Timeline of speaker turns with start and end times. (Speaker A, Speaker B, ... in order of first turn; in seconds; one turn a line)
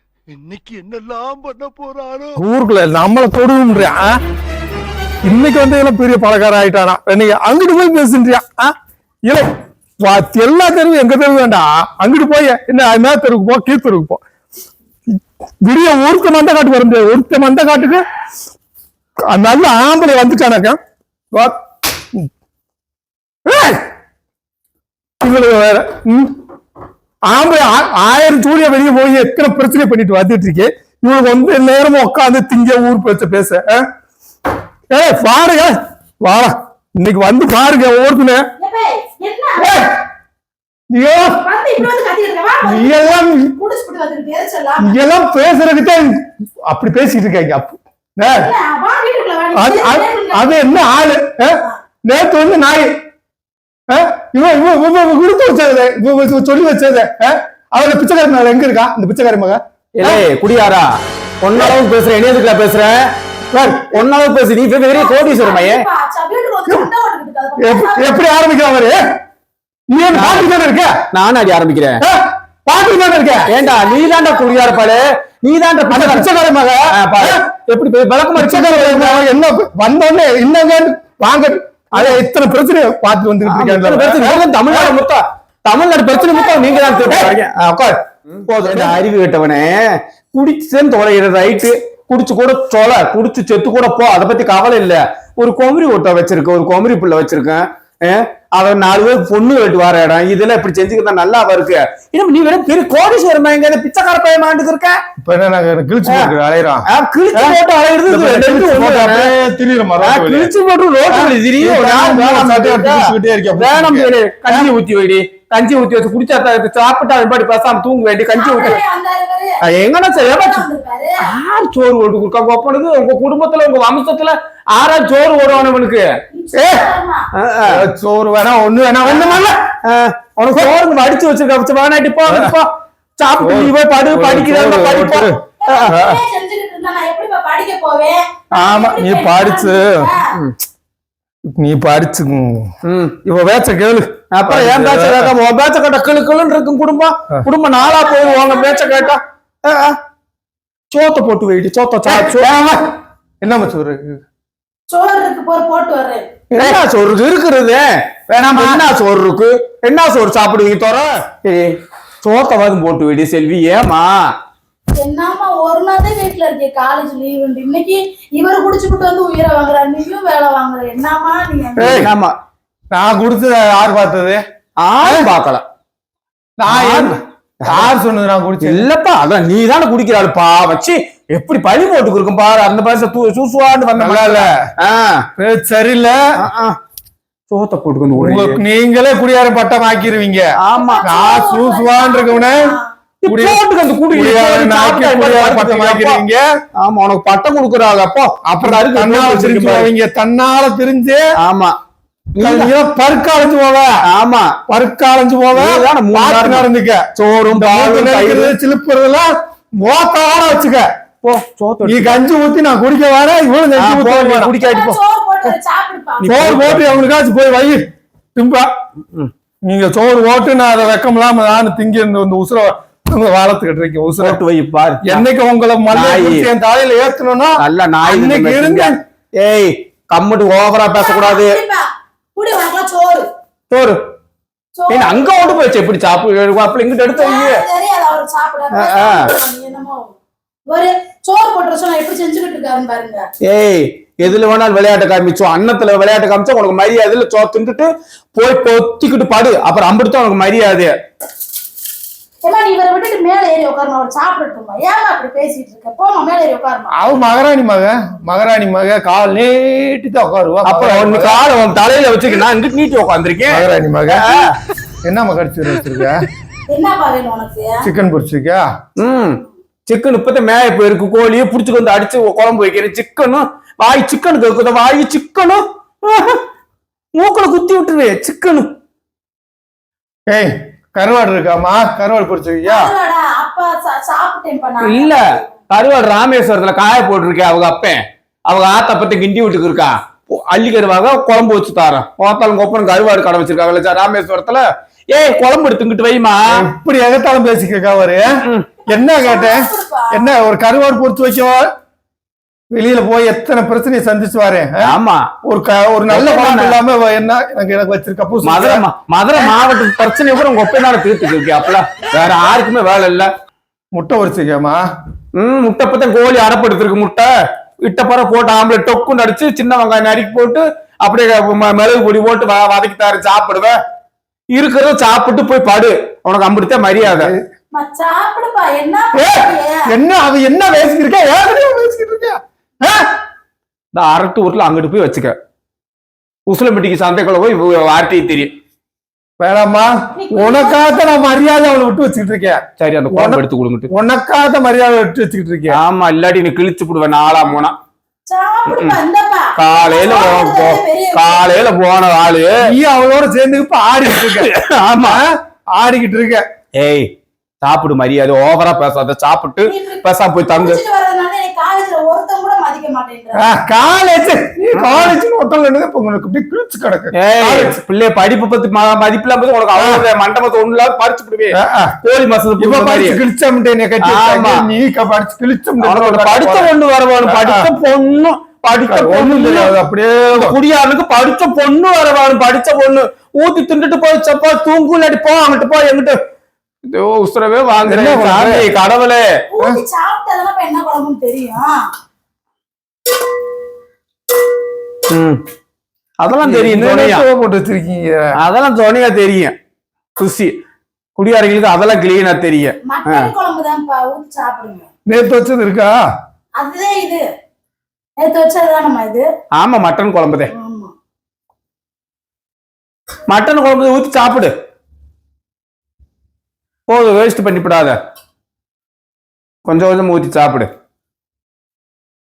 Speaker A: 0.3-2.4
Speaker B: 2.4-4.2
Speaker B: 5.2-8.7
Speaker B: 10.0-14.2
Speaker B: 15.6-18.1
Speaker B: 19.3-20.8
Speaker B: 23.5-23.8
Speaker B: 25.2-26.3
Speaker B: 27.3-33.8
Speaker B: 34.9-38.4
Speaker C: 38.6-39.7
Speaker B: 39.6-39.9
Speaker B: 40.9-41.4
Speaker C: 41.4-45.0
Speaker B: 42.6-43.5
Speaker B: 44.8-48.5
Speaker C: 48.3-50.6
Speaker B: 49.5-52.9
Speaker B: 53.9-60.3
Speaker D: 60.0-60.9
Speaker D: 61.4-63.0
Speaker B: 63.5-64.0
Speaker D: 63.7-65.8
Speaker C: 64.9-68.2
Speaker B: 67.6-69.0
Speaker B: 69.9-71.0
Speaker D: 70.1-70.5
Speaker D: 71.1-72.0
Speaker B: 72.0-73.5
Speaker D: 73.5-76.3
Speaker C: 73.6-74.8
Speaker B: 75.9-77.4
Speaker D: 76.9-79.2
Speaker B: 78.4-85.0
Speaker D: 82.0-82.2
Speaker D: 83.5-88.0
Speaker C: 86.2-87.3
Speaker B: 87.0-87.4
Speaker D: 88.5-105.0
Speaker B: 88.7-89.0
Speaker B: 105.2-110.5
Speaker D: 106.0-106.3
Speaker D: 106.9-109.3
Speaker D: 110.0-118.8
Speaker B: 111.1-114.7
Speaker C: 118.3-119.6
Speaker D: 119.7-120.7
Speaker C: 120.2-121.3
Speaker D: 121.2-126.1
Speaker C: 126.3-127.2
Speaker D: 127.4-127.8
Speaker B: 127.6-129.6
Speaker D: 129.1-132.7
Speaker B: 130.5-130.8
Speaker B: 132.3-132.6
Speaker D: 133.2-135.9
Speaker B: 133.4-136.2
Speaker C: 135.6-140.2
Speaker D: 138.5-138.9
Speaker B: 138.9-140.1
Speaker B: 141.6-142.7
Speaker D: 142.9-143.2
Speaker B: 143.2-145.3
Speaker D: 144.3-150.0
Speaker C: 147.8-149.1
Speaker D: 150.9-152.4
Speaker B: 152.1-152.8
Speaker B: 153.4-154.2
Speaker C: 154.9-156.3
Speaker B: 156.5-156.8
Speaker D: 156.6-157.8
Speaker B: 158.3-158.9
Speaker D: 158.4-161.7
Speaker D: 162.2-164.1
Speaker C: 165.0-172.0
Speaker B: 171.8-172.1
Speaker D: 171.8-172.3
Speaker B: 172.9-174.4
Speaker D: 174.8-175.6
Speaker B: 175.0-175.3
Speaker B: 176.6-178.9
Speaker D: 176.7-177.9
Speaker D: 178.6-185.2
Speaker B: 184.0-184.5
Speaker B: 185.4-186.2
Speaker D: 186.4-186.8
Speaker D: 187.5-188.6
Speaker B: 188.2-190.5
Speaker D: 190.6-191.1
Speaker C: 190.8-192.9
Speaker B: 191.0-192.8
Speaker D: 193.2-196.2
Speaker B: 193.3-193.6
Speaker B: 194.1-196.4
Speaker D: 196.8-199.9
Speaker B: 198.4-201.2
Speaker D: 201.4-201.7
Speaker D: 202.4-202.7
Speaker B: 202.4-203.9
Speaker D: 204.1-204.5
Speaker B: 204.7-210.9
Speaker D: 205.5-208.6
Speaker D: 211.2-212.2
Speaker B: 211.8-214.5
Speaker D: 213.8-215.5
Speaker C: 214.6-216.5
Speaker B: 216.2-217.8
Speaker D: 216.2-217.1
Speaker B: 218.4-218.7
Speaker B: 219.7-224.4
Speaker D: 224.2-225.3
Speaker B: 225.0-228.9
Speaker D: 225.9-226.5
Speaker D: 227.6-231.6
Speaker C: 230.9-233.3
Speaker D: 233.7-234.0
Speaker C: 234.8-235.6
Speaker D: 234.9-237.6
Speaker C: 237.1-240.2
Speaker D: 238.8-239.3
Speaker C: 240.7-243.2
Speaker D: 243.5-250.9
Speaker C: 252.4-256.9
Speaker B: 257.0-261.4
Speaker D: 260.6-264.5
Speaker B: 263.5-264.3
Speaker B: 265.0-266.2
Speaker C: 266.7-267.9
Speaker B: 267.8-268.6
Speaker D: 269.0-276.4
Speaker D: 277.2-278.7
Speaker B: 280.3-282.9
Speaker C: 282.7-285.5
Speaker D: 284.8-296.7
Speaker B: 296.5-298.4
Speaker C: 298.9-300.3
Speaker B: 298.9-301.7
Speaker B: 302.7-308.8
Speaker D: 304.8-305.2
Speaker D: 306.1-306.8
Speaker D: 308.4-313.3
Speaker B: 313.9-314.8
Speaker D: 315.4-317.3
Speaker D: 317.8-323.8
Speaker D: 324.5-327.3
Speaker B: 327.0-327.4
Speaker C: 327.7-329.9
Speaker B: 329.1-333.1
Speaker D: 333.9-335.3
Speaker D: 336.5-338.5
Speaker B: 339.4-345.8
Speaker C: 340.2-340.8
Speaker D: 342.8-343.9
Speaker D: 345.7-347.8
Speaker C: 348.3-351.6
Speaker D: 348.7-349.0
Speaker D: 349.6-352.6
Speaker B: 352.6-356.4
Speaker D: 354.2-355.2
Speaker D: 356.8-357.1
Speaker D: 357.6-360.8
Speaker C: 359.7-363.4
Speaker B: 363.4-367.8
Speaker D: 364.7-365.2
Speaker D: 367.2-373.2
Speaker B: 369.8-370.1
Speaker B: 371.5-371.9
Speaker B: 372.6-376.7
Speaker D: 374.0-374.6
Speaker D: 375.8-379.8
Speaker B: 377.2-377.7
Speaker B: 378.9-380.6
Speaker D: 380.3-386.2
Speaker D: 386.9-389.3
Speaker B: 387.8-388.7
Speaker C: 389.5-391.9
Speaker D: 395.1-395.4
Speaker D: 396.2-397.2
Speaker B: 396.4-398.3
Speaker D: 398.4-399.6
Speaker D: 400.2-400.6
Speaker D: 401.2-403.3
Speaker C: 402.9-404.9
Speaker B: 405.1-405.9
Speaker C: 406.6-407.2
Speaker C: 408.2-409.3
Speaker D: 409.6-410.5
Speaker C: 410.5-410.9
Speaker D: 413.3-414.5
Speaker D: 416.9-418.0
Speaker D: 419.6-420.7